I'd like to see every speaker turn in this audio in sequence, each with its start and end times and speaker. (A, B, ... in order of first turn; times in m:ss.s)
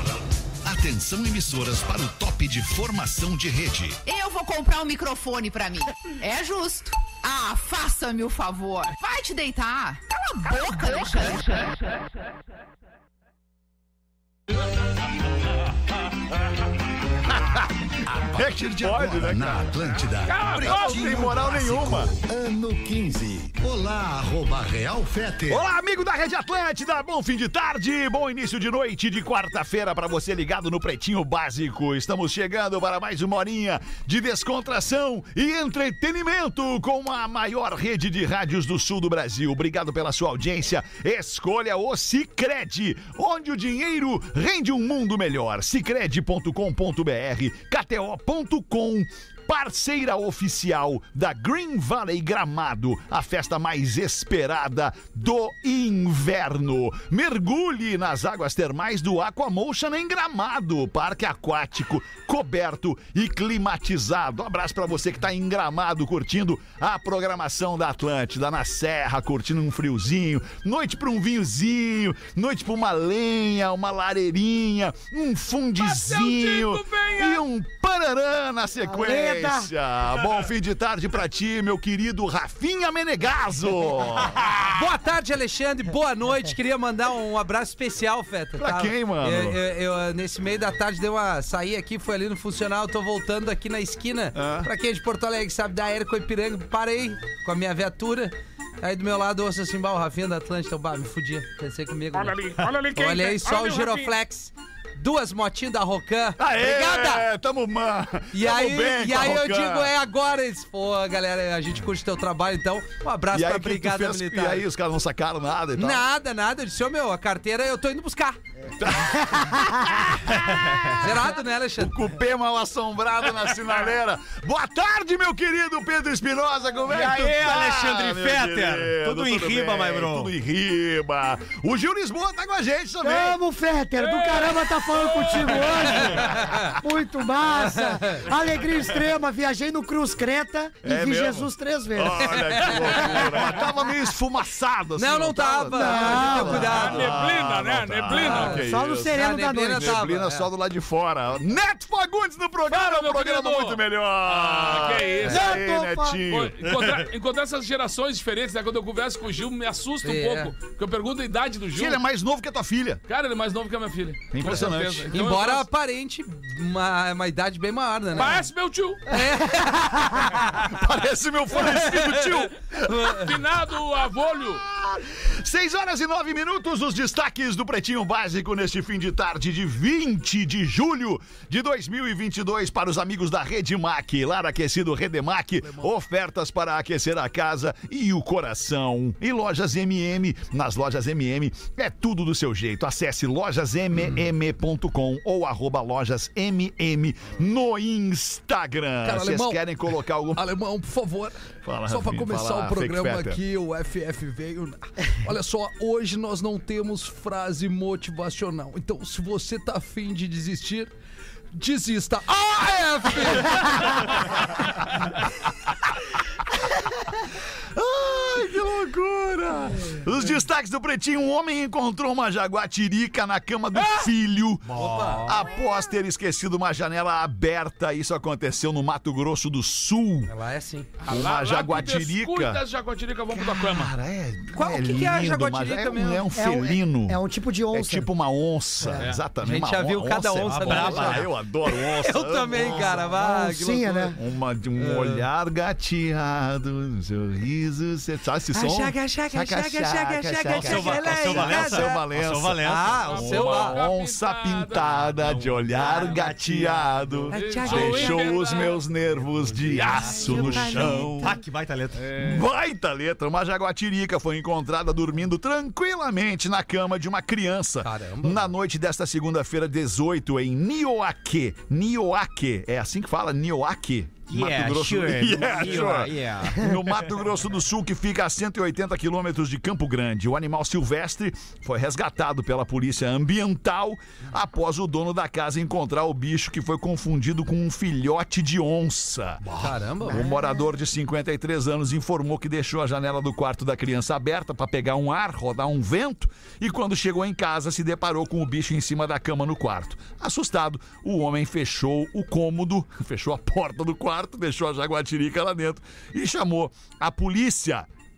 0:00.6-0:04.0 A
0:04.0-0:12.1 B
0:18.3-0:22.1 A
0:18.4-0:25.6 C
0:20.2-0:21.2 D
0:25.5-1:24.9 A
1:15.8-1:17.4 D
1:18.8-1:19.7 E
1:24.7-1:47.3 F
1:28.6-1:29.6 A
1:34.3-1:34.7 A
1:42.6-1:42.8 A
1:43.1-1:43.5 D
1:46.4-1:49.9 A
1:48.3-1:54.6 F
1:53.3-1:56.1 A
1:55.8-1:58.4 F
1:58.8-2:13.4 A
1:59.4-1:59.6 E
2:00.9-2:02.0 F
2:06.9-2:10.3 G
2:13.0-2:23.5 E
2:14.0-2:16.2 D
2:16.1-2:16.7 A
2:16.2-2:16.7 F
2:17.5-2:18.2 F
2:20.8-2:37.1 A
2:22.2-2:23.6 F
2:25.0-2:27.1 F
2:25.7-2:26.8 E
2:26.4-2:28.7 D
2:28.1-2:30.0 E
2:28.1-2:30.5 F
2:32.7-2:35.6 D
2:35.2-2:36.2 E
2:36.3-2:42.0 D
2:40.0-2:40.5 F
2:41.7-2:43.0 A
2:43.1-2:45.7 D
2:44.3-2:45.2 A
2:45.1-2:48.5 F
2:48.1-2:49.1 D
2:49.1-2:50.5 F
2:50.2-2:53.4 A
2:51.6-2:52.2 F
2:52.9-2:53.3 F
2:53.1-2:54.6 D
2:54.3-3:20.4 A
3:19.0-3:19.6 F
3:20.3-3:30.9 F
3:21.6-3:23.4 A
3:31.5-3:34.2 F
3:37.7-3:50.3 A
3:43.7-3:44.1 D
3:44.7-3:45.3 F
3:44.8-3:45.4 G
3:50.3-3:50.9 F
3:51.0-3:53.9 D
3:51.0-3:52.6 A
3:53.3-4:03.0 A
3:54.5-3:56.2 F
3:56.3-3:58.1 E
3:58.8-3:59.1 E
3:59.4-4:04.1 F
4:00.4-4:01.3 G
4:02.6-4:04.2 E
4:04.1-4:21.4 A
4:04.8-4:05.2 F
4:08.5-4:12.0 F
4:10.5-4:13.1 G
4:12.6-4:13.8 F
4:13.1-4:16.2 D
4:15.8-4:17.3 G
4:17.3-4:18.4 F
4:17.3-4:18.8 D
4:19.7-4:20.0 G
4:19.7-4:20.4 D
4:19.8-4:21.4 F
4:20.6-4:22.1 G
4:21.9-4:22.5 D
4:22.1-5:07.9 A
4:27.8-4:28.5 F
4:34.3-4:36.6 G
4:49.6-4:50.3 F
4:50.0-4:50.6 E